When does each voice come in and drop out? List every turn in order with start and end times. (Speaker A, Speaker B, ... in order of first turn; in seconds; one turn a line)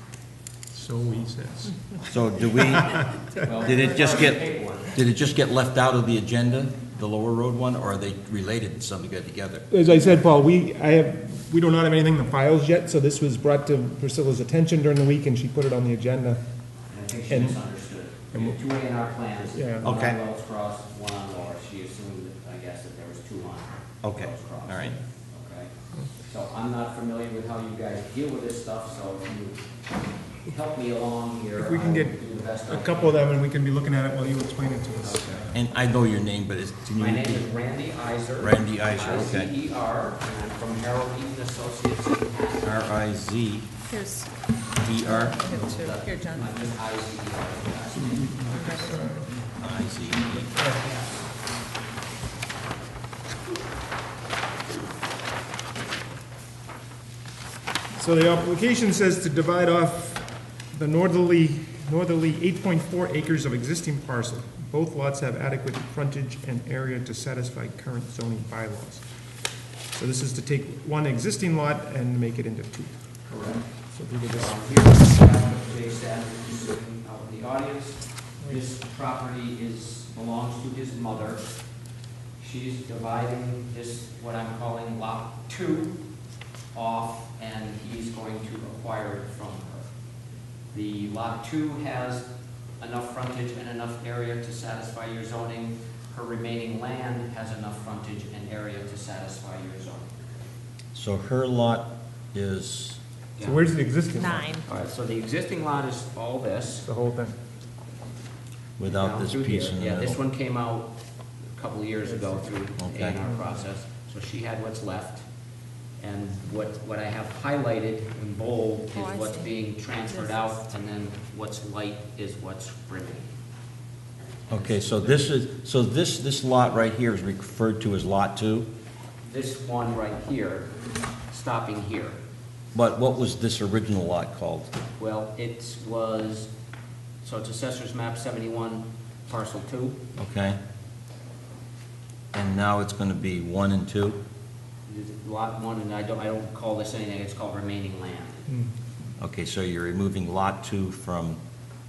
Speaker A: 0.7-1.8
Speaker B: 2.1-3.0
Speaker A: 2.7-3.0
Speaker C: 3.4-4.9
Speaker B: 3.6-9.7
Speaker A: 9.7-16.4
Speaker C: 16.9-29.6
Speaker A: 17.3-17.6
Speaker A: 18.3-18.6
Speaker A: 19.5-19.9
Speaker B: 19.8-20.2
Speaker B: 24.0-24.9
Speaker C: 30.4-33.2
Speaker A: 31.6-35.3
Speaker C: 35.0-35.6
Speaker B: 35.5-37.5
Speaker C: 37.0-42.7
Speaker B: 38.4-39.5
Speaker B: 42.6-43.8
Speaker D: 43.9-44.3
Speaker B: 44.7-45.5
Speaker D: 45.0-46.5
Speaker C: 45.4-48.5
Speaker D: 48.5-49.3
Speaker A: 48.8-49.3
Speaker B: 49.6-50.6
Speaker A: 50.6-50.8
Speaker C: 50.7-51.3
Speaker A: 58.0-69.1
Speaker A: 69.9-73.0
Speaker C: 73.3-81.5
Speaker A: 73.9-74.6
Speaker C: 82.4-86.0
Speaker C: 86.7-89.9
Speaker C: 90.7-92.3
Speaker C: 92.8-100.1
Speaker B: 100.9-103.0
Speaker C: 103.4-103.7
Speaker A: 103.4-104.6
Speaker D: 104.1-104.7
Speaker C: 104.7-106.9
Speaker A: 106.9-107.4
Speaker B: 108.8-110.2
Speaker C: 108.8-110.9
Speaker C: 111.5-115.2
Speaker B: 112.8-113.2
Speaker C: 116.0-123.3
Speaker D: 118.9-119.5
Speaker D: 120.1-120.6
Speaker C: 124.5-125.2
Speaker B: 124.5-128.7
Speaker C: 129.2-130.7
Speaker C: 131.3-132.2
Speaker B: 132.7-134.7
Speaker C: 135.0-136.5
Speaker C: 137.2-140.0
Speaker B: 140.2-140.6
Speaker B: 142.3-144.2
Speaker C: 144.9-148.5
Speaker B: 149.2-151.4